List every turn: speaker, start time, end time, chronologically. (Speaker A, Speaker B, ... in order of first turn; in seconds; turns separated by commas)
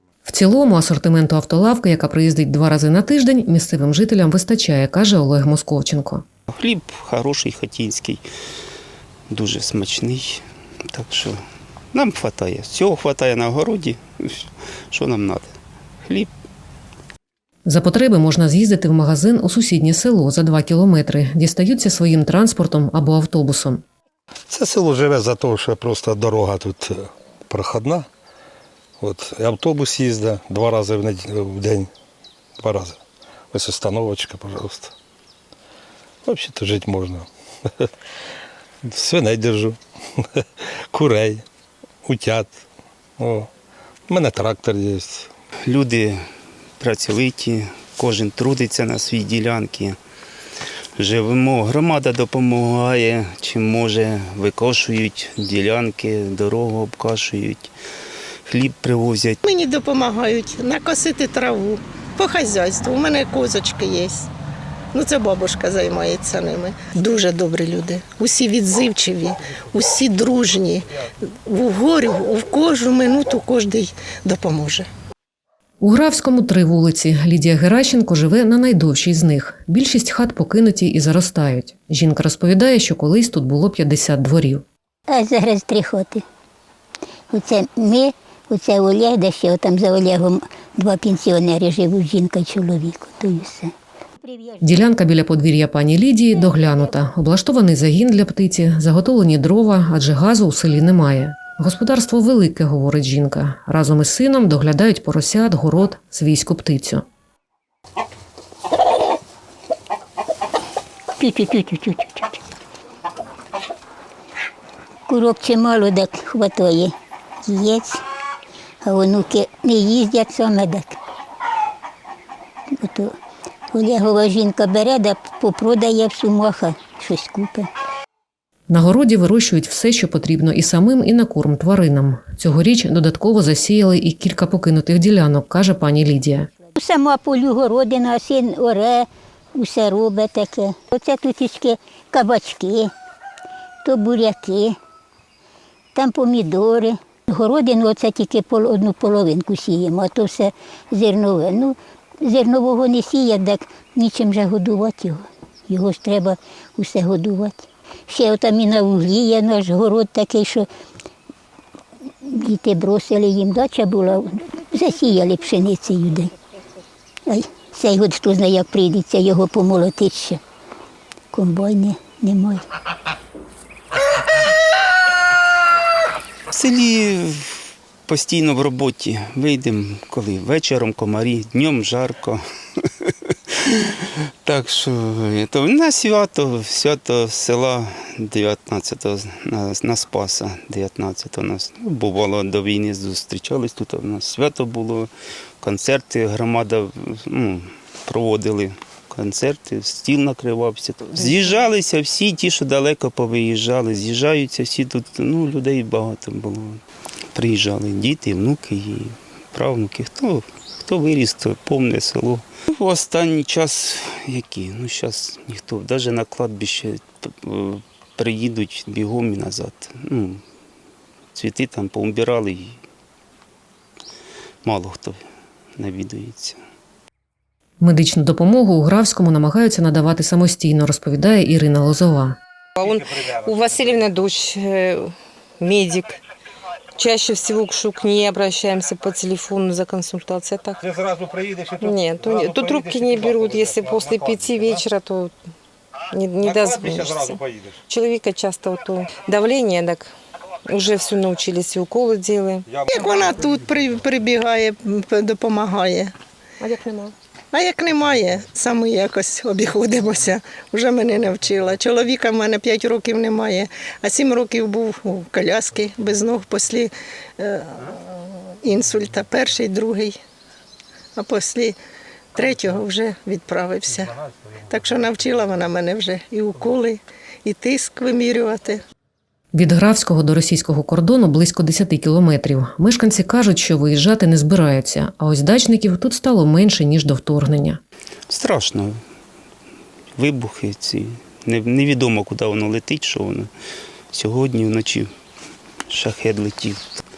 Speaker A: 0.3-6.2, Speaker B: 6.5-8.2, Speaker B: 9.3-11.4, Speaker B: 11.9-15.5, Speaker B: 16.1-16.3, Speaker A: 17.7-23.8, Speaker C: 24.5-28.1, Speaker C: 29.0-31.9, Speaker C: 32.6-33.0, Speaker C: 33.5-34.9, Speaker C: 36.2-37.3, Speaker C: 38.9-41.4, Speaker C: 42.0-42.5, Speaker C: 43.2-43.5, Speaker C: 44.1-45.3, Speaker B: 45.7-46.2, Speaker B: 46.8-50.0, Speaker B: 51.0-57.7, Speaker B: 58.5-59.4, Speaker D: 59.4-64.3, Speaker D: 64.9-70.9, Speaker D: 71.5-74.9, Speaker A: 75.8-84.7, Speaker E: 85.1-86.2, Speaker E: 87.3-94.7, Speaker A: 94.6-107.0, Speaker E: 111.2-112.4, Speaker E: 115.1-116.9, Speaker E: 117.5-118.0, Speaker E: 118.8-121.0, Speaker E: 122.8-123.1, Speaker E: 123.7-127.7, Speaker A: 128.7-136.5, Speaker E: 136.8-142.9, Speaker E: 143.8-144.8, Speaker E: 145.9-160.7, Speaker E: 162.2-166.3, Speaker E: 167.3-170.4, Speaker E: 171.3-172.6, Speaker B: 176.5-195.1, Speaker B: 195.6-206.8, Speaker B: 207.3-220.4, Speaker B: 221.3-222.8, Speaker B: 224.6-225.2, Speaker B: 225.8-226.6, Speaker A: 227.8-232.4, Speaker F: 232.8-236.2, Speaker F: 236.9-240.8, Speaker C: 241.0-241.8, Speaker F: 241.8-245.3, Speaker C: 242.3-242.8, Speaker F: 246.1-250.1, Speaker C: 246.4-247.8, Speaker F: 250.7-252.7, Speaker D: 252.9-256.1, Speaker F: 256.6-257.1, Speaker D: 257.5-270.2, Speaker D: 271.2-271.8, Speaker D: 272.4-278.8, Speaker A: 279.5-287.8, Speaker B: 288.3-288.9, Speaker B: 290.2-293.5, Speaker B: 294.1-295.1, Speaker B: 295.9-297.0